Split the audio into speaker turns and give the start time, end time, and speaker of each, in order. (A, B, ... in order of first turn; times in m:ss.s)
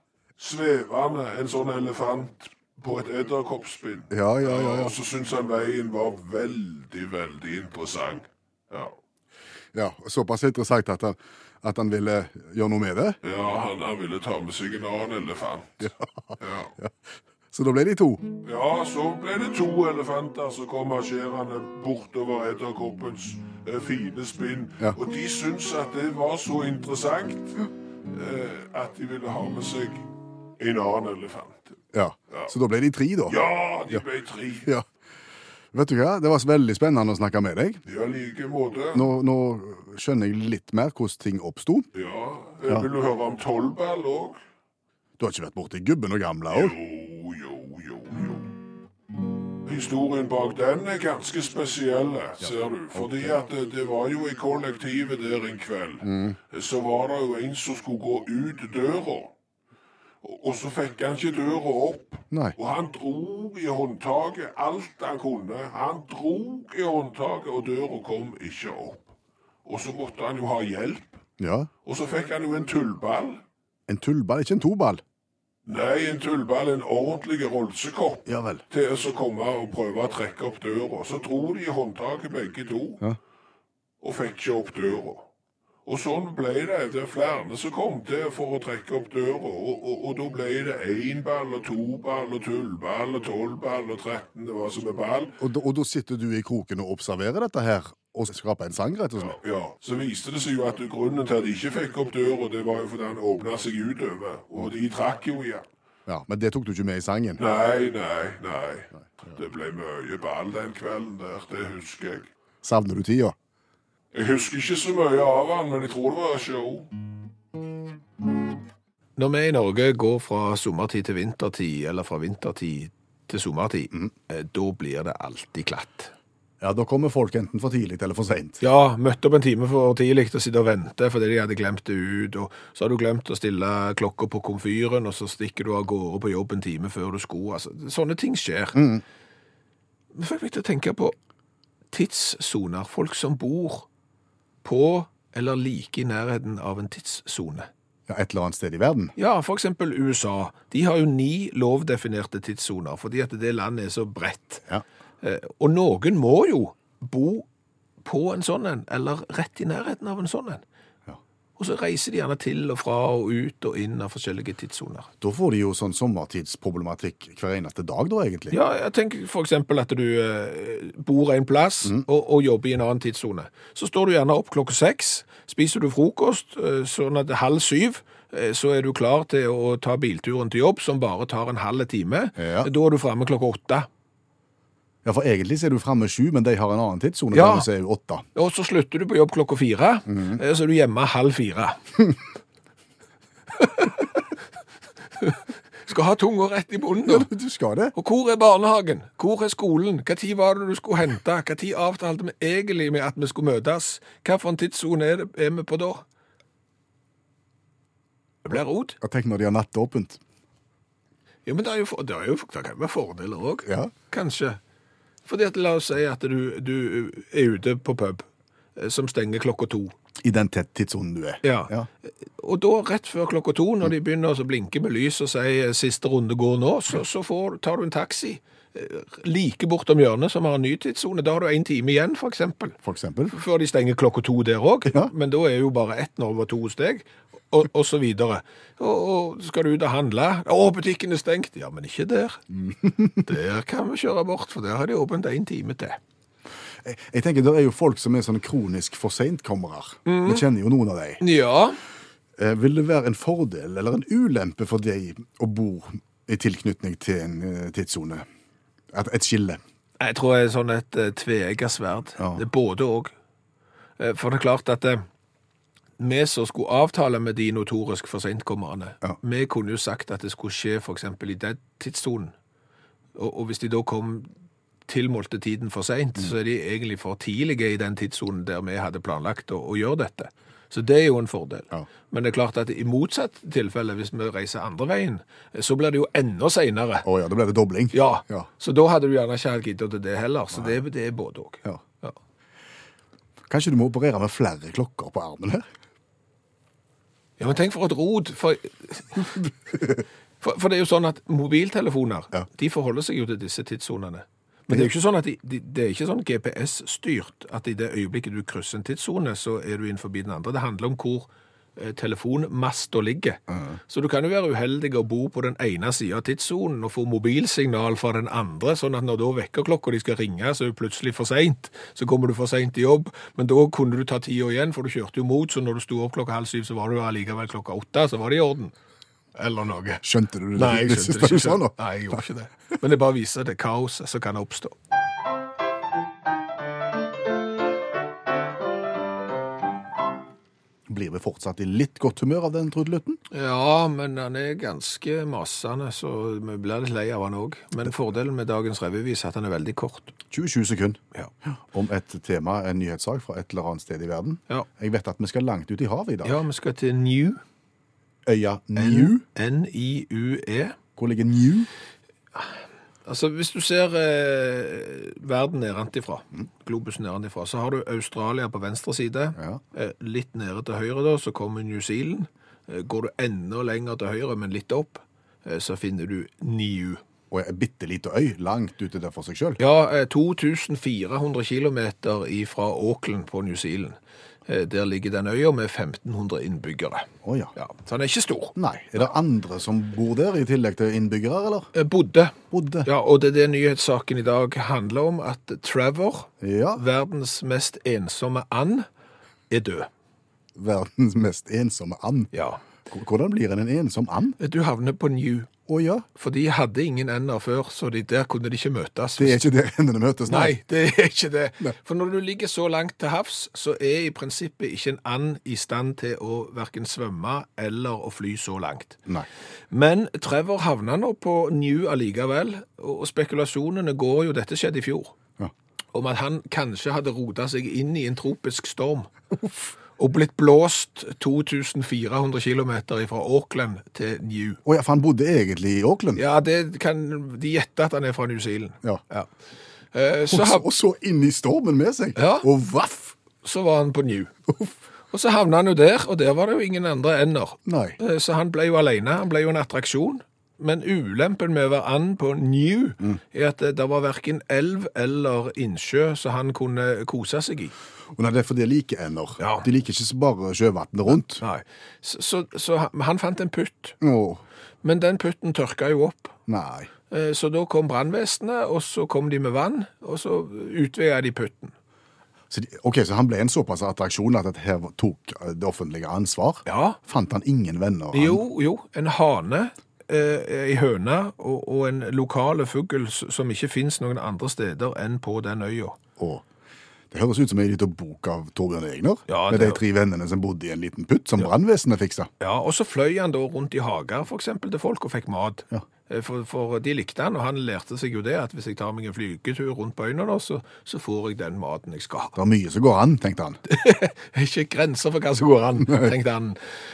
0:00.4-0:09.0 A
0:04.1-0:04.9 B
0:09.7-0:13.2 B
0:13.2-0:16.7 A
0:15.8-0:17.0 B
0:17.5-0:18.3 B
0:18.4-0:30.1 A
0:30.6-0:31.8 A
0:31.9-0:33.4 B
0:33.3-0:34.7 A
0:35.7-0:37.8 B
0:37.8-0:39.1 A
0:38.9-0:41.9 B
0:41.9-0:44.4 A
0:45.2-0:46.8 B
0:46.5-0:48.5 A
0:49.6-0:59.3 A
0:52.9-0:53.3 B
0:56.0-0:56.4 B
1:00.2-1:09.1 A
1:02.3-1:02.6 B
1:09.6-1:11.2 A
1:11.4-1:11.7 B
1:11.8-1:13.4 A
1:13.9-1:15.0 B
1:15.6-1:23.0 A
1:18.2-1:18.6 B
1:24.0-1:25.2 A
1:25.8-1:35.4 A
1:35.4-1:39.4 B
1:39.2-1:45.6 A
1:46.0-1:47.4 B
1:47.4-1:52.3 A
1:52.6-1:53.3 B
1:54.1-1:56.9 A
1:59.2-2:06.1 C
2:06.6-2:08.6 B
2:08.6-2:18.8 C
2:18.7-2:19.0 B
2:20.1-2:21.1 C
2:21.9-2:23.9 C
2:24.6-2:27.7 C
2:28.1-2:29.1 B
2:29.2-2:34.6 C
2:35.2-2:37.4 C
2:38.0-2:40.6 C
2:41.6-2:45.1 C
2:45.2-2:48.6 B
2:48.5-3:03.9 C
3:02.4-3:02.7 B
3:05.0-3:08.2 B
3:07.3-3:07.7 C
3:08.3-3:11.9 C
3:10.1-3:10.4 B
3:13.5-3:14.2 C
3:15.2-3:17.3 C
3:17.0-3:17.9 B
3:17.9-3:26.0 C
3:28.4-3:29.0 C
3:29.0-3:30.2 B
3:31.4-3:34.6 C
3:33.6-3:33.9 B
3:35.2-3:39.9 C
3:40.2-3:41.9 B
3:41.4-3:52.8 C
3:52.8-3:53.4 B
3:53.3-4:02.4 C
3:54.9-3:55.1 B
4:02.5-4:03.2 B
4:03.2-4:06.0 C
4:06.8-4:11.2 B
4:10.0-4:10.4 C
4:11.2-4:11.8 C
4:12.4-4:18.2 B
4:18.9-4:19.6 B
4:20.0-4:23.1 C
4:22.2-4:22.4 B
4:24.0-4:25.0 C
4:26.0-4:32.3 C
4:33.1-4:34.3 C
4:34.9-4:47.0 C
4:47.0-4:48.5 B
4:47.9-4:52.2 C
4:53.5-4:55.6 B
4:57.4-4:59.4 C
5:00.4-5:28.7 C
5:13.5-5:13.8 B
5:29.3-5:34.8 C
5:30.0-5:32.2 B
5:40.9-5:43.2 B
5:43.3-5:50.1 C
5:50.3-5:56.4 B
5:56.2-5:57.4 C
5:58.2-5:59.2 B
5:58.8-6:00.8 C
6:01.0-6:01.7 B
6:03.0-6:17.0 C
6:17.3-6:19.6 B
6:19.6-6:28.5 C
6:27.2-6:27.5 B
6:28.6-6:31.7 B
6:31.7-6:38.9 C
6:32.5-6:32.9 B
6:36.4-6:36.8 B
6:39.5-6:39.9 C
6:40.6-6:42.3 B
6:42.3-6:42.6 C
6:42.9-6:44.4 B
6:44.4-6:45.5 C
6:45.7-6:46.0 B
6:46.1-6:49.4 C
6:49.2-6:50.6 B
6:50.3-6:59.0 C
6:59.7-7:05.1 C
7:05.9-7:14.6 C
7:14.6-7:16.2 B
7:16.2-7:19.3 C
7:19.9-7:20.6 C
7:20.3-7:23.2 B
7:22.2-7:22.5 C
7:23.4-7:24.3 C
7:25.1-7:37.7 C
7:27.6-7:28.0 B
7:38.1-7:41.4 B
7:39.4-7:39.6 C
7:41.3-7:44.0 C
7:44.0-7:44.4 B
7:44.8-7:46.4 C
7:46.5-7:46.9 B
7:47.1-7:51.7 C
7:52.5-7:58.4 B
7:56.6-7:57.0 C
7:58.1-8:06.0 C
8:06.2-8:06.4 B
8:07.1-8:12.3 B
8:09.3-8:09.8 C
8:12.4-8:22.4 C
8:22.4-8:23.6 B
8:23.7-8:26.8 C
8:25.8-8:26.1 B